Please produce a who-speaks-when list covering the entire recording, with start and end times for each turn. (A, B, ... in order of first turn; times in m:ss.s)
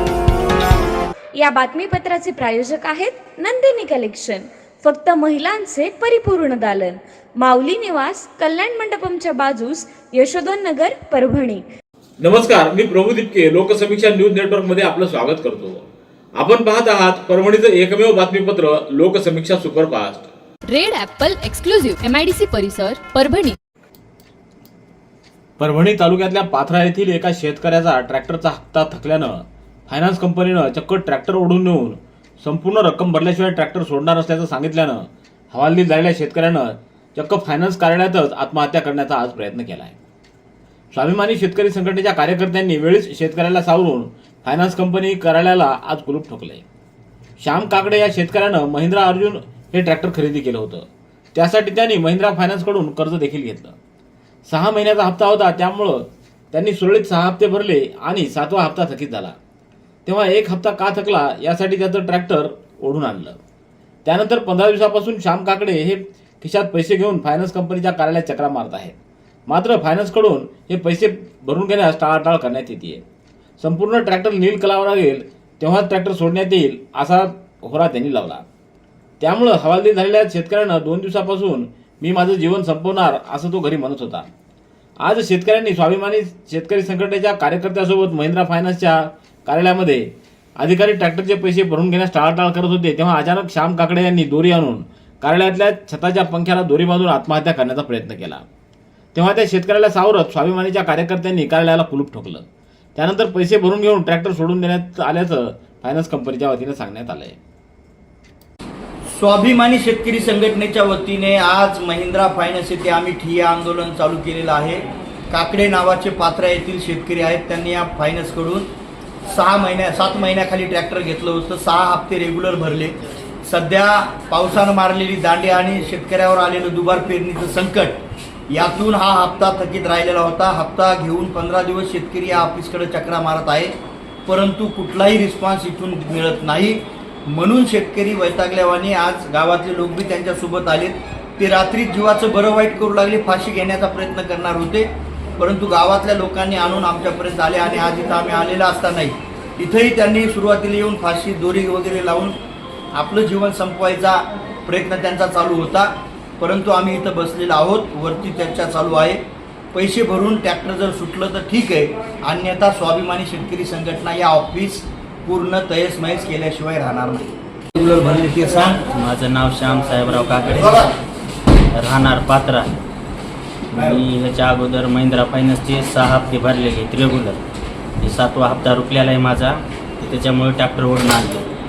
0:01.4-0:11.6 A
0:12.2-0:15.9 B
0:16.4-0:20.3 B
0:20.7-0:23.6 C
0:25.6-0:40.0 B
0:40.9-0:46.6 B
0:47.4-0:53.8 B
0:54.5-0:59.4 B
1:00.0-1:03.4 B
1:04.0-1:09.0 B
1:09.5-1:13.0 B
1:13.6-1:18.4 B
1:19.2-1:24.3 B
1:25.0-1:38.4 B
1:39.1-1:47.4 B
1:49.1-1:58.6 D
1:59.3-2:02.9 D
2:03.4-2:08.0 D
2:08.5-2:13.7 D
2:14.2-2:24.9 D
2:25.4-2:32.4 D
2:33.0-2:39.2 D
2:39.7-2:48.9 D
2:48.9-2:50.8 E
2:50.5-2:50.9 D
2:51.7-2:52.7 E
2:53.7-2:57.4 E
2:53.8-2:54.0 D
2:58.0-3:01.4 E